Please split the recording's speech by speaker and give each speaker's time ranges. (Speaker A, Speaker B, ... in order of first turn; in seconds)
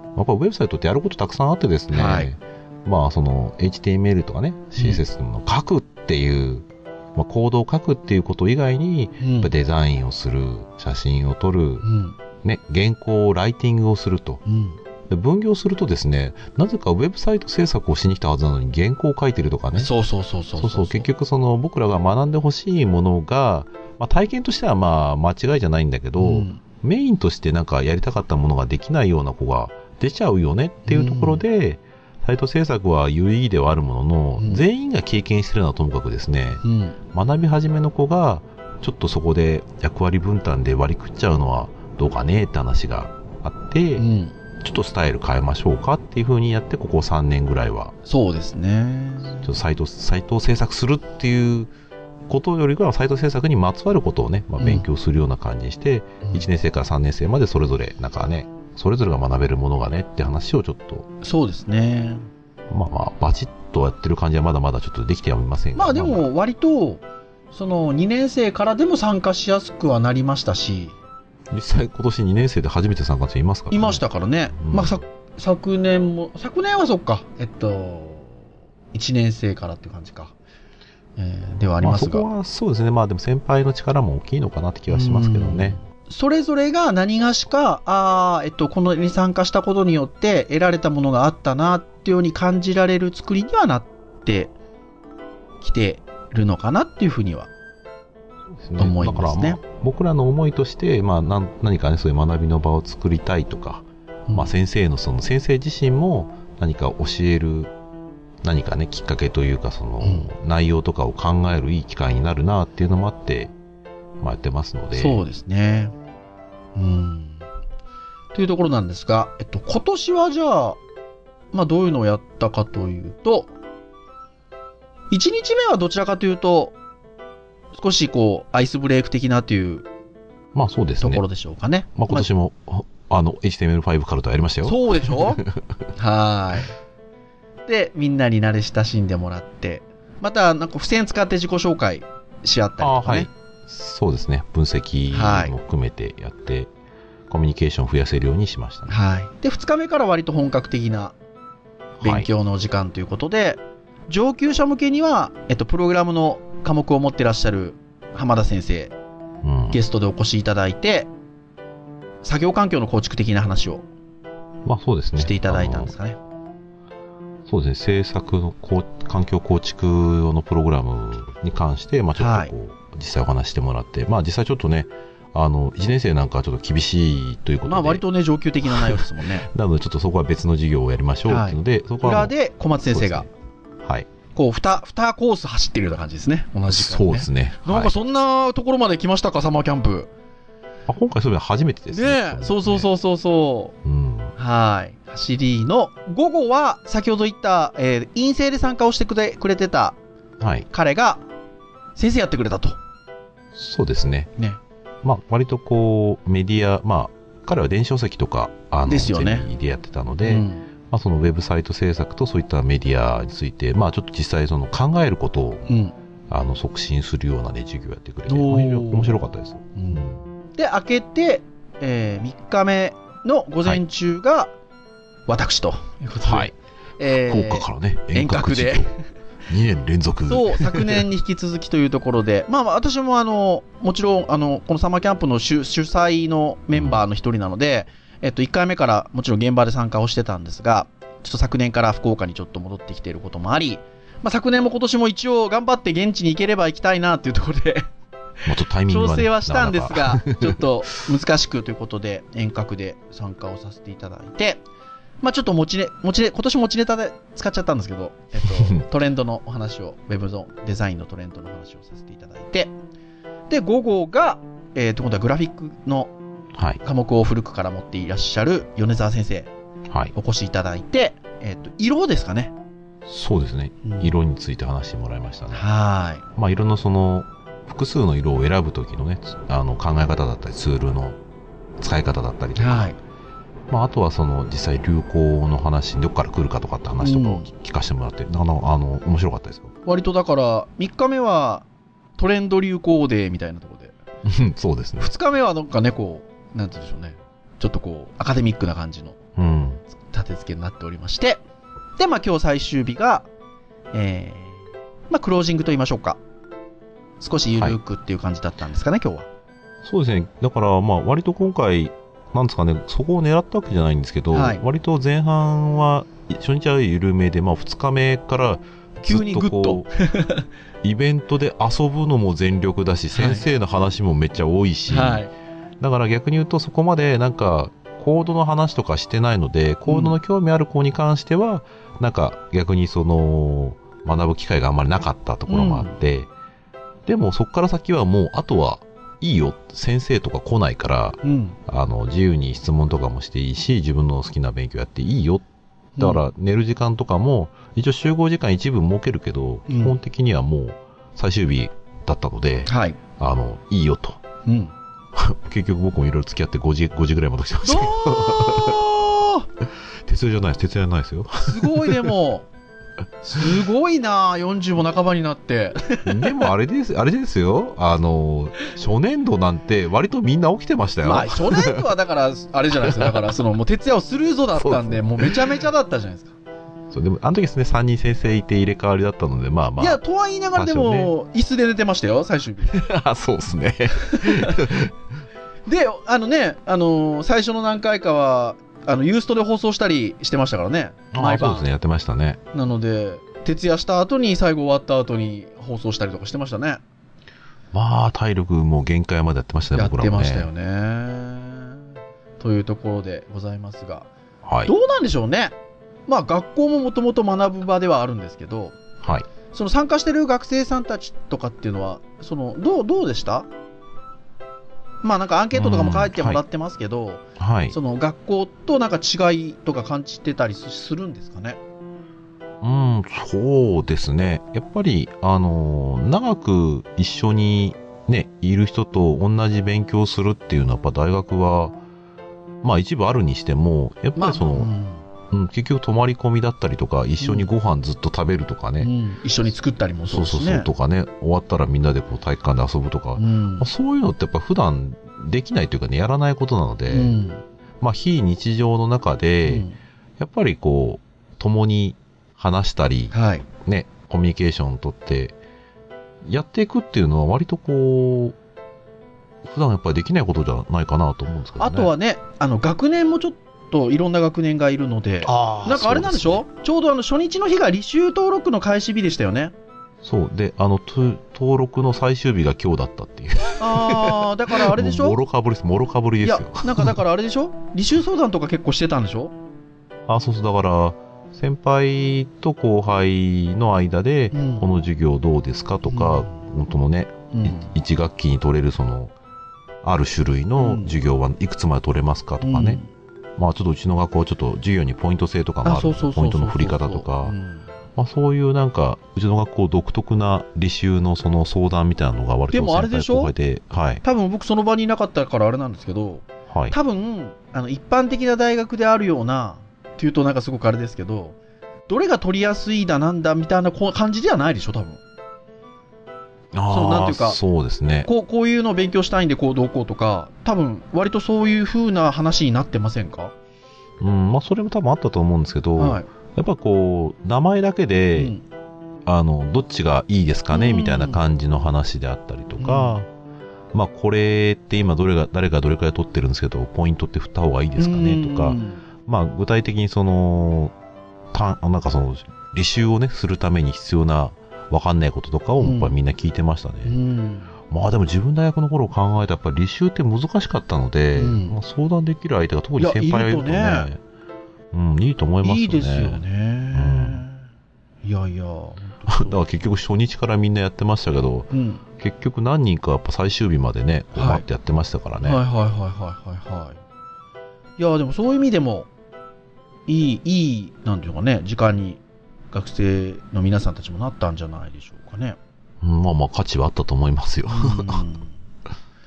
Speaker A: 0.1-11.8, 12.4-14.4, 15.1-19.9, 20.6-44.0, 44.6-48.0, 49.4-51.7, 52.3-61.1, 62.7-66.3, 71.5-74.0, 74.6-74.9, 81.8-85.8, 98.5-107.7, 108.4-113.5, 114.2-115.2, 130.5-131.2, 132.0-135.6, 142.8-146.7, 147.3-148.9, 152.0-152.3, 159.4-159.8, 164.6-165.9, 167.5-178.0, 178.7-182.3, 182.9-183.3, 183.8-184.1, 186.7-187.9, 190.9-192.9, 193.8-194.3, 200.4-200.7, 203.5-204.3, 205.0-215.6, 216.3-220.2, 226.2-226.5, 227.1-228.9, 229.5-231.1, 236.8-237.0, 248.5-250.6, 258.6-258.8, 266.6-266.8, 273.1-275.6, 276.4-281.2, 281.8-282.9, 283.7-289.7, 294.2-295.1, 299.4-299.8, 309.8-319.9, 320.8-325.2, 325.8-336.3, 337.1-345.4, 346.0-354.2, 355.1-358.9, 360.1-362.1, 366.1-371.8, 372.8-373.1, 374.6-375.5, 376.9-380.0, 380.6-381.1, 382.7-384.9, 391.1-392.4, 397.7-400.5, 404.4-404.7, 409.0-409.3, 415.5-416.4, 417.4-417.8, 422.6-431.8, 432.6-434.7, 435.3-438.9, 440.1-447.1, 447.8-449.6, 450.2-455.4, 456.2-458.4, 459.4-461.9, 465.2-466.4, 470.0-477.0, 480.1-489.1, 489.8-492.8, 493.4-497.4, 498.0-504.0, 506.5-506.8, 516.5-518.1, 524.0-528.3, 529.1-533.1, 533.7-540.7, 541.3-547.0, 547.7-554.0, 554.7-556.2, 556.8-557.2, 559.1-565.4, 575.8-578.0
Speaker B: 1.9-2.3, 4.8-5.0, 9.2-9.5, 11.8-12.2, 14.5-14.8, 19.8-21.1, 26.2-26.6, 30.9-31.4, 34.4-34.6, 36.6-37.0, 44.0-44.4, 48.1-49.5, 54.6-54.9, 61.2-62.3, 65.8-67.0, 67.5-71.0, 73.7-78.3, 78.9-80.3, 81.2-82.3, 84.9-94.5, 95.6-97.5, 98.8-99.6, 104.3-104.5, 110.0-110.3, 115.0-115.9, 116.8-117.4, 118.3-120.8, 121.5-123.5, 125.1-126.8, 127.7-129.8, 131.0-132.3, 134.6-135.4, 136.0-136.8, 137.7-143.3, 145.1-145.6, 148.9-151.1, 152.0-158.9, 159.7-161.1, 162.2-163.9, 165.2-166.2, 172.2-172.5, 177.7-179.5, 181.3-183.3, 184.3-190.1, 191.9-193.8, 194.4-200.0, 200.7-201.2, 202.0-202.8, 208.9-209.5, 210.2-210.7, 215.7-215.9, 218.3-219.2, 219.8-224.5, 225.3-229.0, 230.3-247.9, 248.9-254.6, 255.2-262.7, 263.5-266.1, 266.8-269.5, 270.1-272.5, 273.8-274.1, 275.5-276.2, 282.6-283.0, 287.0-287.5, 289.9-291.6, 292.2-293.9, 295.0-299.2, 300.1-301.4, 302.0-303.3, 303.9-304.6, 305.1-306.2, 307.2-309.3, 314.3-314.6, 319.0-320.4, 323.1-323.4, 324.9-325.3, 329.9-330.1, 335.5-335.9, 341.2-341.6, 346.0-346.2, 349.7-350.0, 352.6-353.0, 354.5-354.7, 357.6-359.5, 361.4-362.5, 363.2-366.5, 371.0-376.4, 379.8-382.8, 384.0-384.7, 385.6-391.7, 392.5-396.8, 399.8-401.8, 402.4-404.1, 404.6-405.6, 406.1-408.8, 409.5-413.5, 415.0-421.6, 434.1-435.1, 437.2-437.5, 438.8-440.7, 443.2-443.7, 446.9-447.4, 449.4-449.8, 453.1-453.5, 461.6-469.5, 473.6-475.2, 476.2-479.3, 484.3-484.6, 485.9-486.3, 487.3-487.7, 490.6-490.9, 492.4-492.9, 495.6-497.6, 502.5-503.3, 504.0-511.4, 511.9-515.0, 516.7-517.4, 518.0-523.3, 525.8-526.1, 528.1-528.4, 530.5-531.2, 532.6-533.0, 537.8-538.8, 545.6-545.9, 546.9-547.5, 551.1-551.6, 552.8-553.9, 555.4-557.5, 558.0-559.4, 561.5-561.8, 564.1-564.4, 565.2-566.8, 567.8-568.9, 569.9-572.0, 572.5-575.4, 577.5-578.4